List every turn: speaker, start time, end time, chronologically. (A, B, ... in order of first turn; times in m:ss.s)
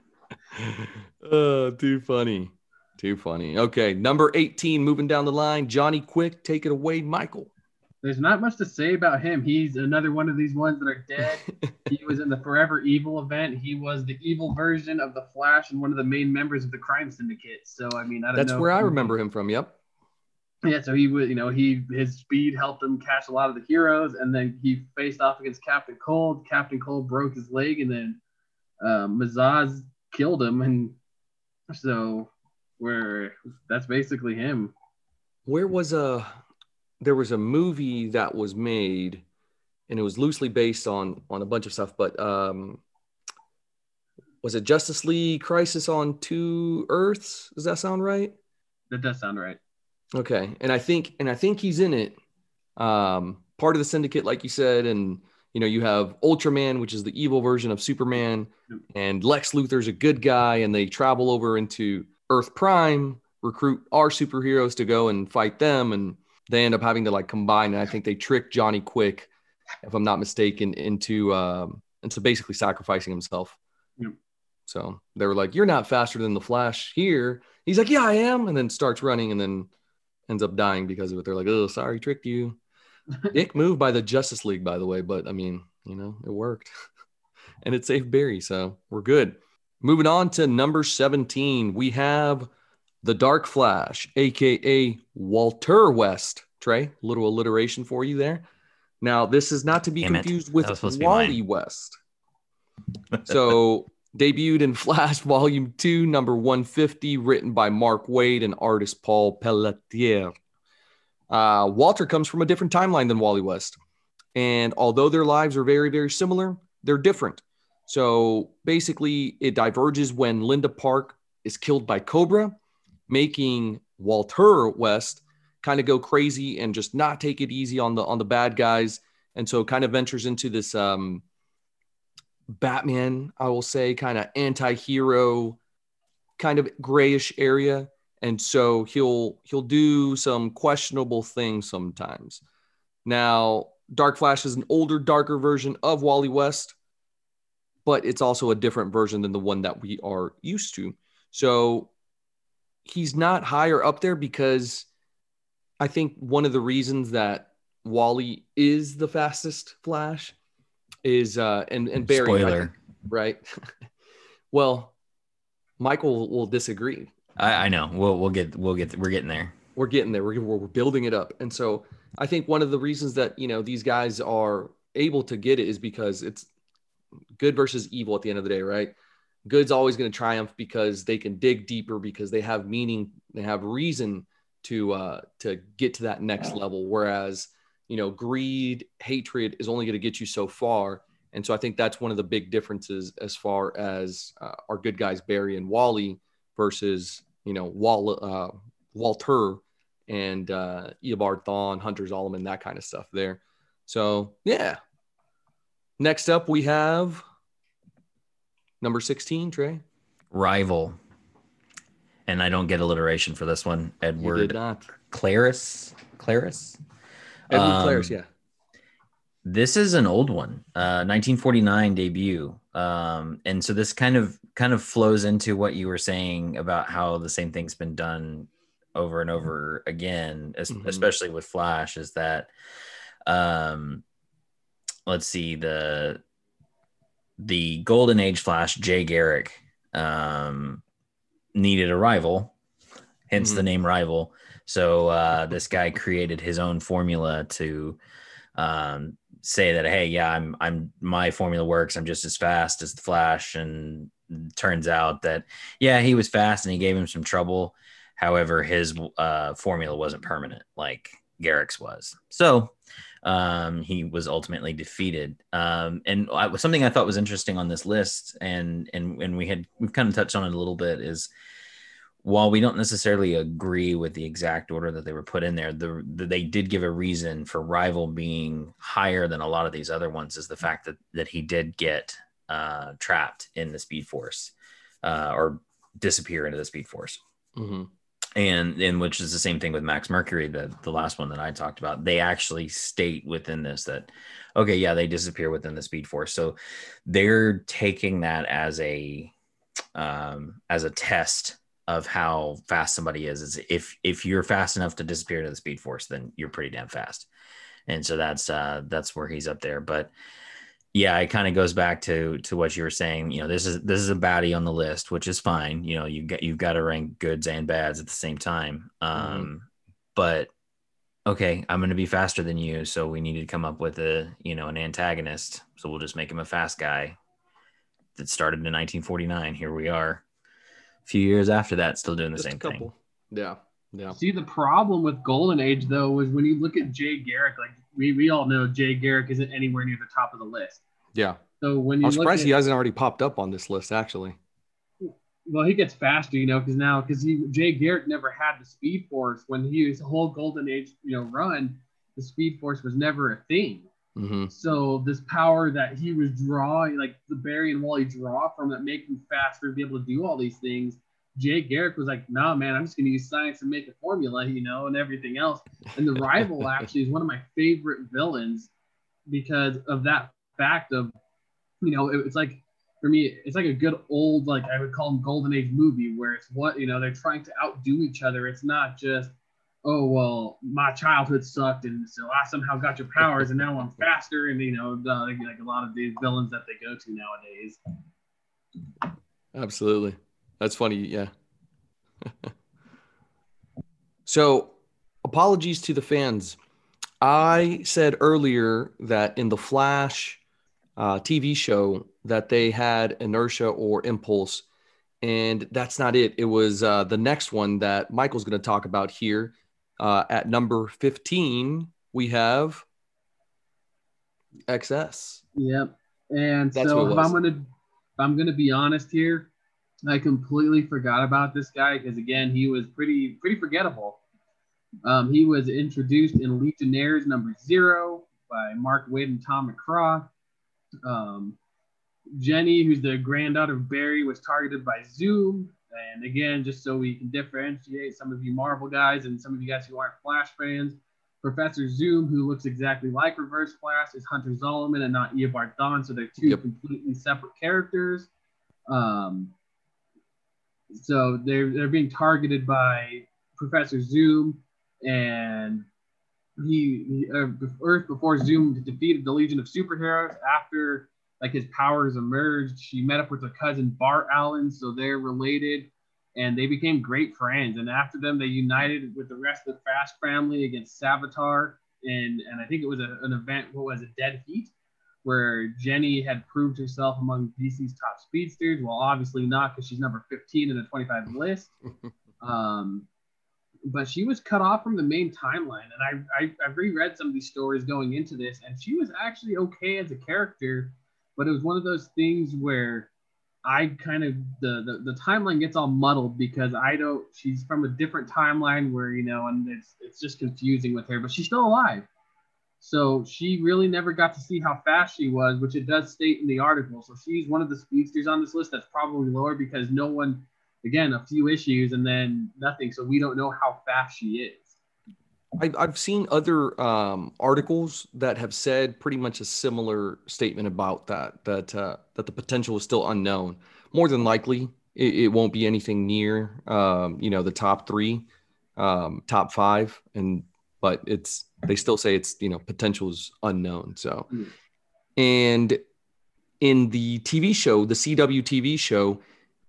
0:00.5-0:07.5 A
0:08.0-0:19.1 B
0:18.3-0:19.8 A
0:20.6-0:28.2 B
0:28.8-0:31.0 B
0:31.7-0:34.7 B
0:35.5-0:36.4 A
0:37.0-0:39.2 A
0:39.9-0:42.8 A
0:44.4-0:48.4 A
0:48.9-0:49.6 B
0:50.1-0:52.2 A
0:52.8-1:09.3 A
1:09.8-1:13.6 A
1:14.7-1:19.7 A
1:20.3-1:22.6 A
1:23.3-1:26.7 A
1:27.6-1:32.5 A
1:33.0-1:38.4 A
1:39.0-1:42.0 A
1:40.0-1:41.4 C
1:43.2-1:50.3 A
1:51.3-1:53.8 A
1:54.3-2:02.5 A
2:03.1-2:11.2 A
2:12.5-2:15.6 A
2:16.4-2:22.4 A
2:23.0-2:26.7 A
2:27.8-2:31.9 A
2:32.8-2:34.9 A
2:35.8-2:40.3 A
2:41.0-2:43.7 A
2:42.0-2:42.7 C
2:44.5-2:44.9 A
2:45.8-2:47.1 A
2:47.4-2:49.6 C
2:49.8-2:56.5 A
2:57.4-2:58.9 A
2:59.4-3:24.8 A
3:26.0-3:27.2 A
3:28.8-3:29.8 A
3:30.3-3:31.0 C
3:32.3-3:34.6 C
3:34.2-3:34.9 A
3:35.1-3:36.8 C
3:37.5-3:38.1 C
3:37.5-3:38.3 A
3:39.4-3:52.5 C
3:50.7-3:51.1 A
3:53.2-3:54.0 C
3:55.1-3:56.2 C
3:57.4-4:00.8 C
4:01.5-4:02.5 C
4:03.3-4:08.0 C
4:03.4-4:03.6 A
4:08.6-4:31.3 C
4:32.2-4:47.2 C
4:47.6-4:47.9 A
4:48.4-4:59.3 C
4:59.9-5:07.3 C
5:07.9-5:10.1 C
5:10.9-5:20.5 C
5:19.1-5:19.5 A
5:21.2-5:27.2 C
5:28.2-5:30.2 C
5:31.0-5:32.9 C
5:32.4-5:34.2 A
5:34.1-5:40.8 B
5:41.1-5:41.4 A
5:41.6-5:42.6 B
5:42.0-5:44.4 A
5:45.0-5:53.9 B
5:54.2-5:54.5 A
5:54.5-6:08.7 B
6:06.2-6:06.8 A
6:09.3-6:11.1 B
6:11.8-6:19.3 B
6:19.8-6:27.8 B
6:29.5-6:31.3 A
6:32.2-6:32.5 A
6:34.2-6:36.6 A
6:37.2-6:40.4 A
6:41.0-6:44.6 A
6:45.2-6:52.8 A
6:54.7-6:55.4 A
6:55.6-6:57.6 B
6:56.7-6:57.4 A
6:58.2-6:59.5 B
7:00.1-7:04.2 B
7:05.0-7:10.3 B
7:11.0-7:11.6 B
7:12.4-7:28.3 B
7:28.9-7:29.5 B
7:30.9-7:35.8 B
7:36.6-7:54.7 B
7:55.2-8:01.7 B
8:02.4-8:03.1 B
8:03.9-8:13.1 B
8:13.6-8:22.1 B
8:22.8-8:34.8 B
8:35.6-8:48.2 A
8:48.8-8:54.3 A
8:55.2-8:55.8 A
8:56.6-8:59.2 A